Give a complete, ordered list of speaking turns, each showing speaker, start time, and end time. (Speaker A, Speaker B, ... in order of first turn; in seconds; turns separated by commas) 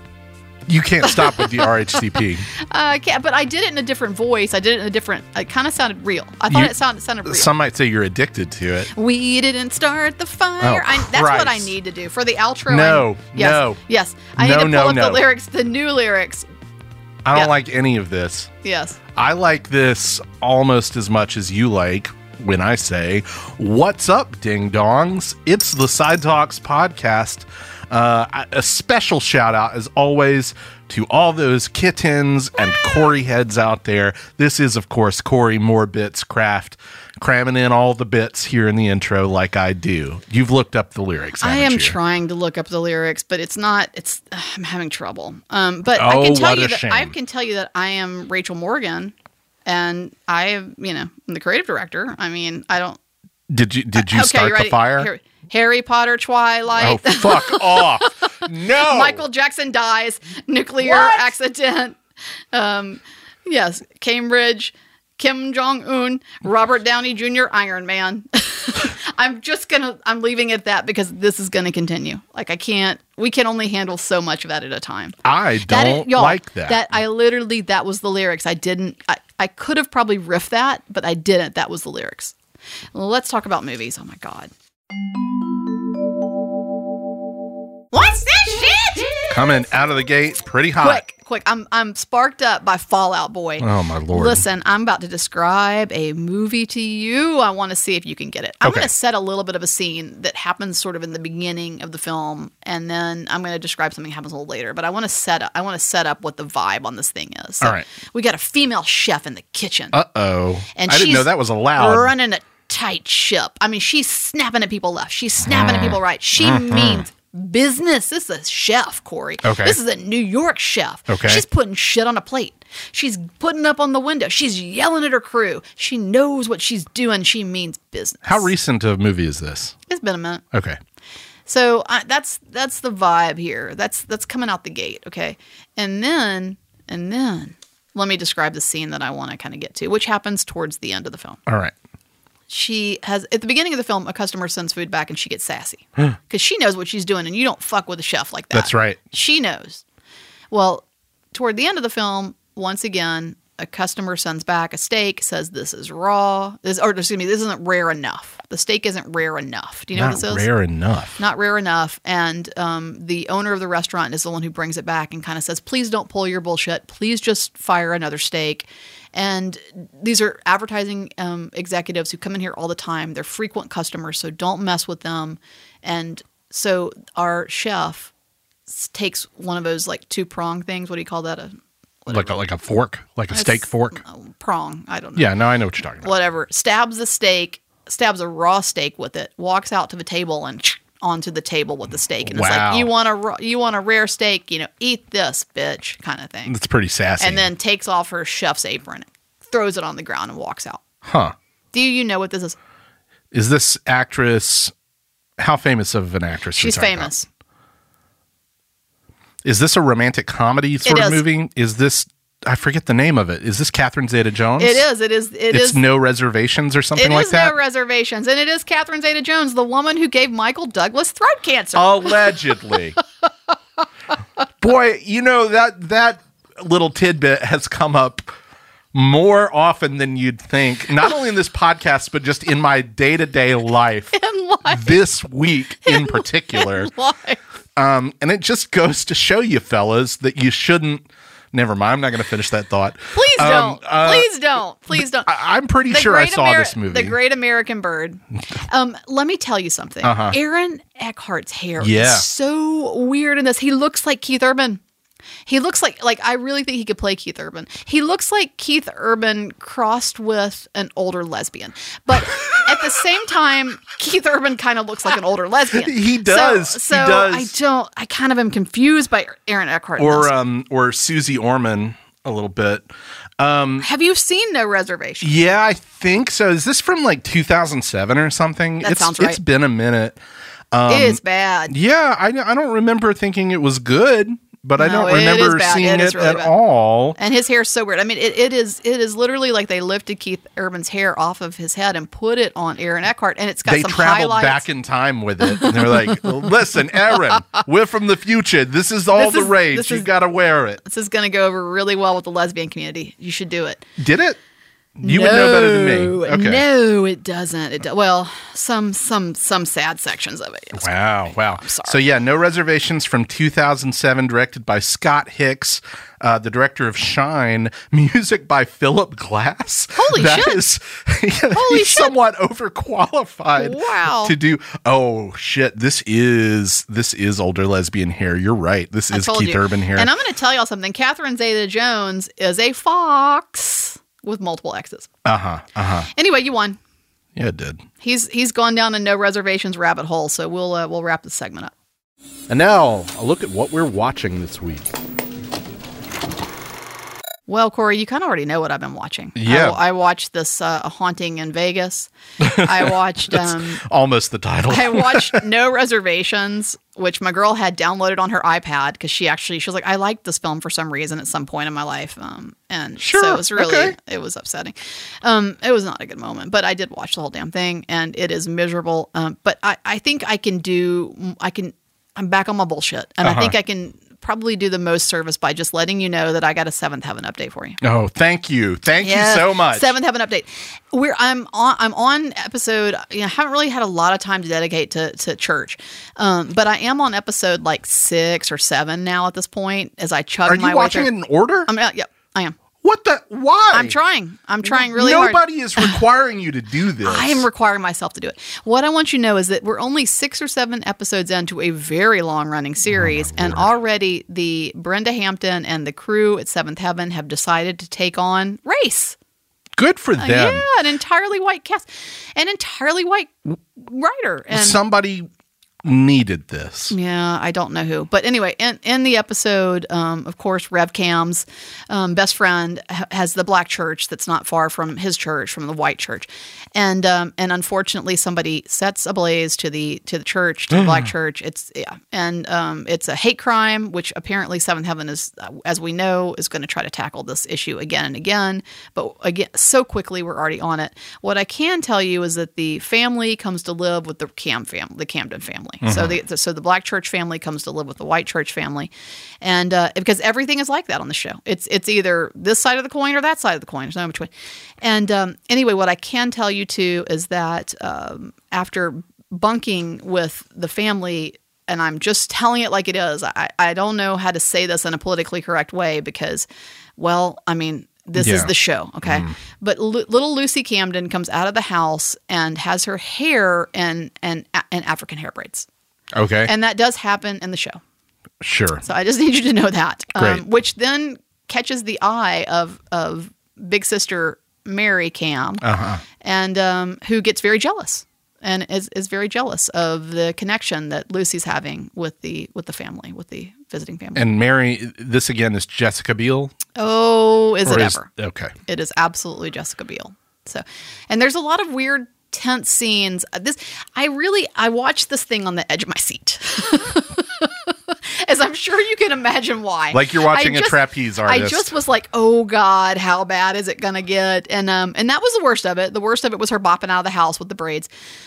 Speaker A: 0.7-2.5, Speaker B: 1.0-7.5, Speaker A: 7.2-8.9, Speaker B: 8.9-16.4, Speaker A: 10.6-11.7, Speaker A: 12.7-13.8, Speaker A: 14.3-15.2, Speaker A: 17.2-18.5, Speaker B: 18.6-19.0, Speaker A: 19.1-42.0, Speaker B: 41.4-49.1, Speaker A: 45.9-47.1, Speaker B: 49.6-53.0, Speaker A: 53.5-55.1, Speaker B: 54.0-62.0, Speaker A: 56.8-59.2, Speaker A: 60.8-61.2, Speaker B: 62.5-82.3, Speaker A: 75.2-76.9, Speaker B: 82.9-84.5, Speaker B: 87.9-89.3, Speaker A: 89.3-91.0, Speaker B: 90.8-110.0, Speaker A: 93.6-94.4, Speaker A: 98.6-98.9, Speaker A: 109.9-112.1, Speaker B: 110.7-128.5, Speaker A: 115.4-117.0, Speaker A: 119.4-119.8, Speaker A: 121.1-121.4, Speaker A: 128.2-129.7, Speaker B: 129.9-130.4, Speaker B: 131.4-141.4, Speaker A: 141.5-141.7, Speaker B: 142.5-149.8, Speaker A: 148.5-149.0, Speaker B: 150.5-160.5, Speaker A: 159.9-161.2, Speaker B: 161.2-178.1, Speaker B: 178.7-181.5, Speaker B: 182.0-182.4, Speaker A: 182.1-184.0, Speaker B: 183.3-185.3, Speaker A: 185.1-186.1, Speaker B: 186.0-196.5, Speaker A: 192.2-192.9, Speaker A: 196.4-197.5, Speaker B: 197.2-200.8, Speaker A: 201.0-201.3, Speaker B: 201.7-202.6, Speaker A: 203.3-204.7, Speaker A: 205.4-207.1, Speaker B: 206.5-207.3, Speaker A: 209.4-214.8, Speaker B: 210.8-211.2, Speaker B: 214.6-215.8, Speaker A: 215.5-217.6, Speaker B: 216.9-222.2, Speaker A: 221.7-223.0, Speaker A: 224.6-228.3, Speaker A: 228.9-236.9, Speaker B: 234.1-235.0, Speaker B: 235.8-237.4, Speaker A: 237.8-244.3, Speaker B: 243.1-245.3, Speaker A: 244.9-247.2, Speaker B: 245.9-254.8, Speaker A: 250.0-250.3, Speaker A: 251.8-252.2, Speaker B: 255.4-270.3, Speaker A: 265.7-267.5, Speaker A: 270.0-272.9, Speaker A: 273.4-273.9, Speaker B: 273.8-275.3, Speaker A: 275.2-280.2, Speaker B: 278.8-279.4, Speaker A: 280.7-287.2, Speaker B: 280.9-281.7, Speaker B: 284.8-286.5, Speaker B: 287.2-294.6, Speaker A: 293.7-300.8, Speaker B: 295.4-296.2, Speaker B: 299.1-300.1, Speaker B: 300.8-303.8, Speaker A: 304.0-304.4, Speaker A: 305.0-306.6, Speaker B: 305.0-312.0, Speaker A: 310.7-330.1, Speaker B: 319.9-320.6, Speaker B: 321.5-322.1, Speaker B: 323.6-324.3, Speaker B: 329.1-335.1, Speaker A: 335.2-336.1, Speaker B: 336.1-336.8, Speaker A: 337.4-337.8, Speaker B: 338.0-341.7, Speaker A: 342.5-344.9, Speaker B: 347.5-353.8, Speaker A: 349.4-349.8, Speaker A: 352.4-355.5, Speaker B: 354.7-377.8, Speaker A: 363.0-363.9, Speaker A: 373.2-373.5, Speaker A: 377.8-379.9, Speaker B: 379.0-391.1, Speaker A: 390.5-391.7, Speaker B: 391.6-392.6, Speaker A: 392.8-393.9, Speaker B: 393.7-396.0, Speaker A: 394.6-397.5, Speaker B: 397.0-409.1, Speaker A: 402.9-403.7, Speaker A: 409.8-410.6, Speaker B: 410.2-414.8, Speaker A: 414.5-415.3, Speaker A: 415.8-416.9, Speaker B: 416.9-475.7, Speaker A: 445.8-446.1, Speaker A: 468.2-468.5, Speaker A: 469.0-469.3, Speaker A: 476.1-476.5, Speaker B: 476.4-477.8, Speaker A: 478.4-478.8, Speaker B: 478.8-485.6, Speaker A: 480.1-480.4, Speaker A: 485.6-486.0, Speaker B: 486.2-494.2, Speaker A: 494.1-496.5, Speaker B: 496.8-498.1, Speaker A: 497.6-498.5, Speaker B: 498.6-517.9, Speaker A: 509.9-511.7